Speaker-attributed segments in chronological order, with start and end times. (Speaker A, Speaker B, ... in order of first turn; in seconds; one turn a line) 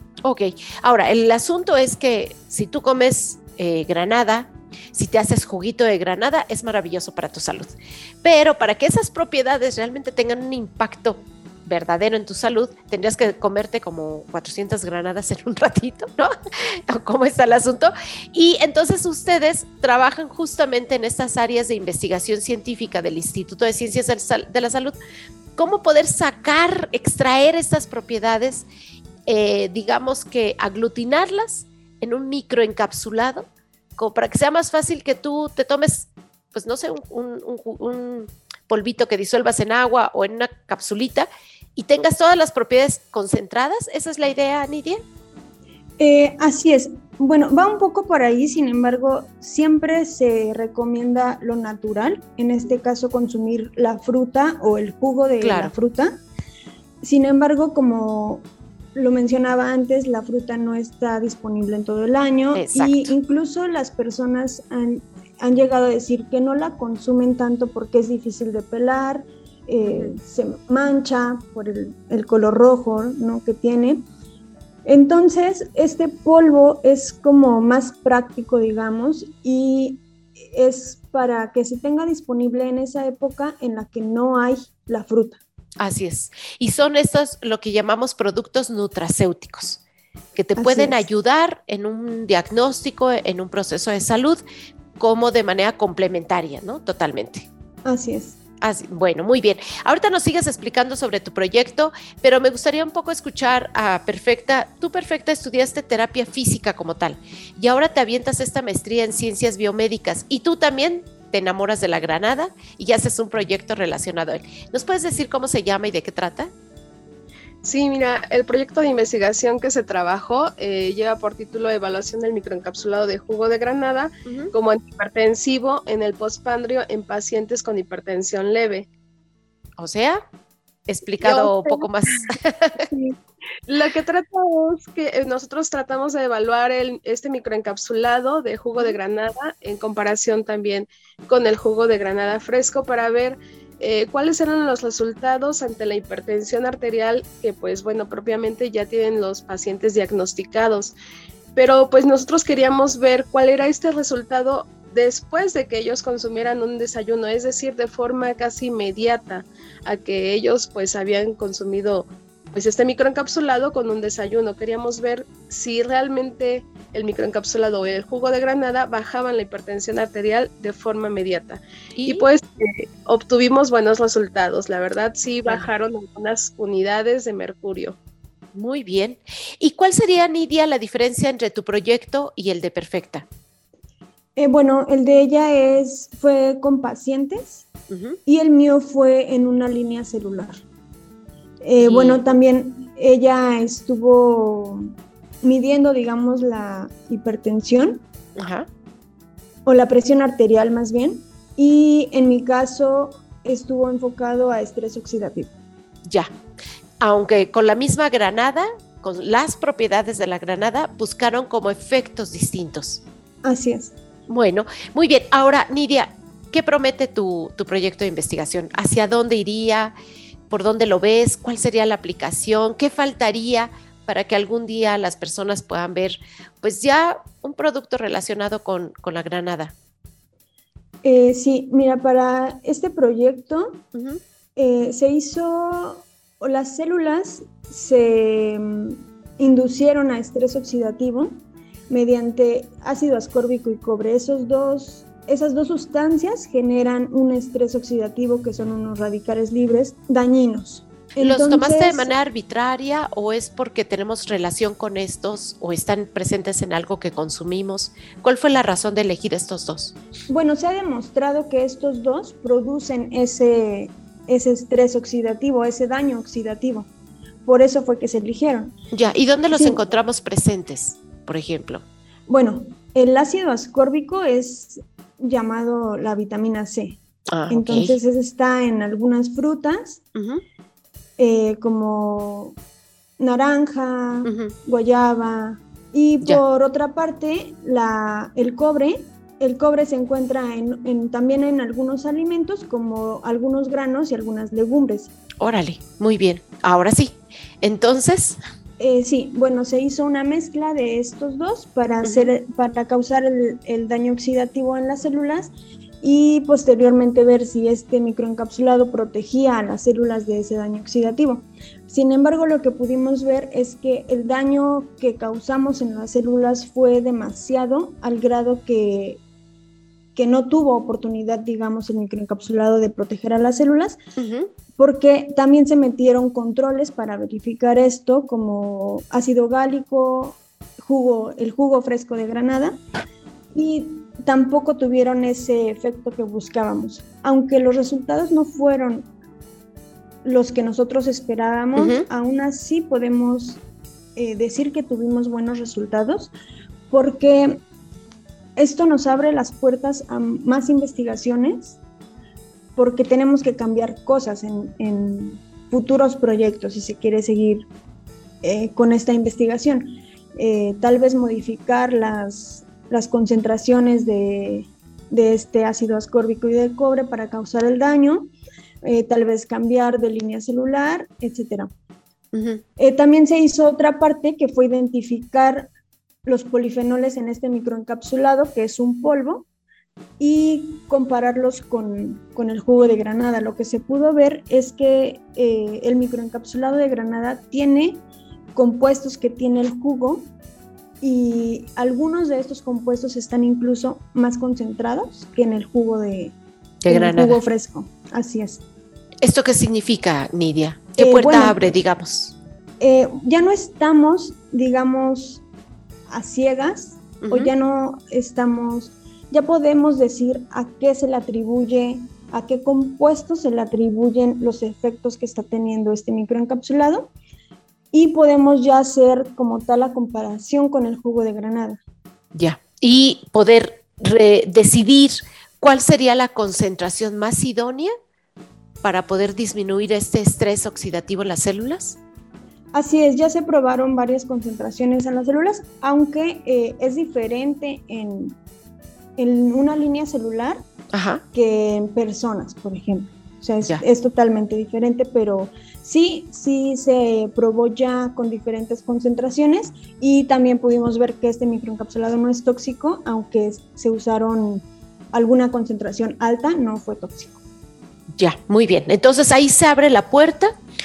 Speaker A: 0.2-25.0
Speaker A: 25.6-28.7
Speaker A: 29.3-45.0
Speaker B: 46.0-56.2
Speaker A: 55.4-55.7
Speaker B: 57.0-74.0
Speaker A: 62.5-63.1
Speaker A: 69.8-70.1
Speaker B: 74.9-85.4
Speaker A: 85.8-89.8
Speaker A: 90.4-94.4
Speaker B: 90.6-91.1
Speaker A: 95.0-97.5
Speaker B: 97.8-98.4
Speaker A: 98.6-116.5
Speaker C: 117.6-128.9
Speaker A: 124.3-124.5
Speaker A: 129.8-130.2
Speaker A: 130.9-132.9
Speaker C: 131.2-131.9
Speaker C: 132.9-151.0
Speaker C: 151.6-178.0
Speaker A: 172.0-172.3
Speaker A: 178.6-183.2
Speaker B: 184.4-187.7
Speaker A: 187.9-188.2
Speaker B: 188.3-190.6
Speaker B: 191.6-194.9
Speaker A: 191.8-192.2
Speaker B: 195.4-198.0
Speaker A: 198.4-198.7
Speaker B: 199.7-205.5
Speaker A: 207.0-213.0
Speaker B: 213.4-213.9
Speaker A: 214.3-219.9
Speaker A: 220.5-229.7
Speaker B: 231.0-233.8
Speaker A: 233.9-234.2
Speaker B: 234.6-252.1
Speaker A: 251.2-260.0
Speaker B: 260.3-266.9
Speaker B: 267.4-268.7
Speaker A: 268.9-271.8
Speaker B: 269.5-269.8
Speaker B: 272.3-280.0
Speaker A: 277.3-277.9
Speaker A: 280.1-280.4
Speaker B: 281.2-282.6
Speaker B: 283.2-295.1
Speaker A: 284.3-284.5
Speaker A: 295.4-298.4
Speaker B: 298.8-319.2
Speaker A: 302.0-302.3
Speaker B: 320.2-324.0
Speaker A: 324.2-324.5
Speaker B: 324.8-332.8
Speaker B: 333.5-339.1
Speaker B: 340.2-343.6
Speaker A: 341.8-342.0
Speaker B: 344.2-346.3
Speaker B: 346.9-347.6
Speaker B: 348.6-351.8
Speaker B: 352.8-357.7
Speaker B: 358.4-368.3
Speaker B: 368.8-371.7
Speaker A: 372.3-372.6
Speaker B: 372.8-375.7
Speaker B: 376.3-379.5
Speaker B: 380.2-388.0
Speaker B: 388.6-390.3
Speaker B: 391.0-396.4
Speaker A: 396.8-397.4
Speaker B: 396.9-398.6
Speaker A: 399.2-402.4
Speaker B: 401.0-401.6
Speaker B: 402.8-405.4
Speaker B: 406.1-417.1
Speaker A: 407.2-407.5
Speaker B: 417.9-421.8
Speaker A: 422.3-427.9
Speaker A: 428.8-432.0
Speaker B: 432.7-438.4
Speaker B: 439.2-440.7
Speaker A: 440.9-441.2
Speaker B: 441.3-457.4
Speaker A: 458.2-460.5